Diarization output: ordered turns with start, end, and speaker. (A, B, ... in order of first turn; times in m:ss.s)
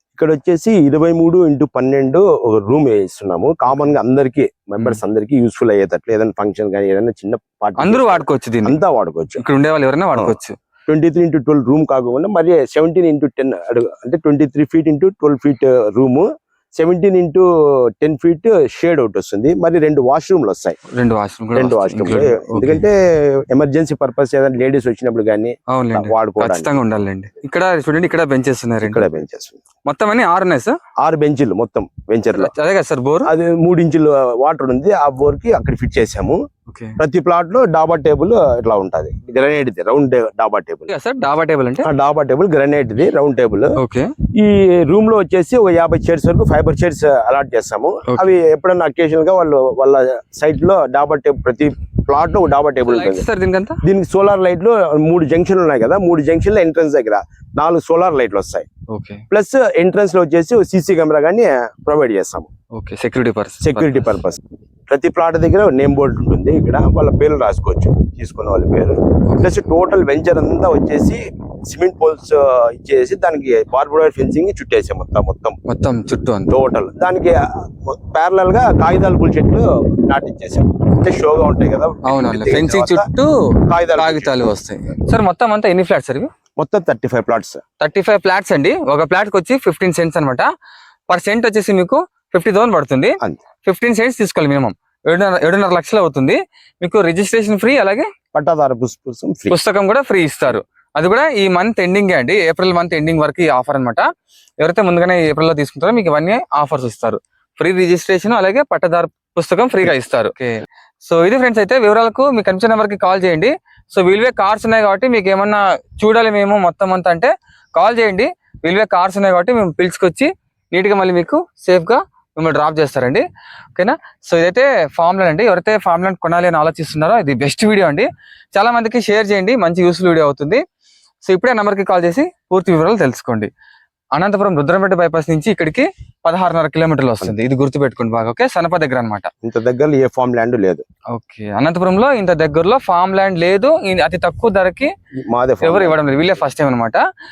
0:00.2-0:09.4 A
0:07.8-0:08.8 B
0:09.4-0:10.6 B
0:10.9-0:20.8 A
0:20.9-0:22.8 B
0:21.6-0:26.7 A
0:25.7-0:29.1 B
0:28.8-0:29.6 A
0:29.8-0:30.8 B
0:31.0-0:32.5 A
0:32.4-0:33.3 B
0:33.2-0:36.4 A
0:36.7-0:37.0 B
0:37.0-0:40.9 A
0:40.9-0:41.9 B
0:41.8-0:43.8 A
0:43.8-0:44.1 B
0:44.4-0:53.3 A
0:48.1-0:48.3 B
0:52.8-0:53.8 B
0:53.8-0:58.7 A
0:58.9-0:59.2 B
0:59.3-1:02.5 A
1:02.7-1:04.2 B
1:03.6-1:15.6 A
1:09.3-1:09.5 B
1:15.7-1:16.5 B
1:16.5-1:23.1 A
1:22.0-1:26.3 B
1:23.7-1:24.4 A
1:26.6-1:27.6 A
1:27.8-1:30.5 B
1:31.1-1:38.1 B
1:38.3-1:39.6 A
1:39.5-1:44.1 B
1:44.6-2:03.2 B
2:03.8-2:10.6 B
2:11.2-2:13.5 B
2:14.1-2:19.3 B
2:19.4-2:20.8 A
2:21.1-2:24.9 B
2:25.3-2:26.4 A
2:25.6-2:27.0 B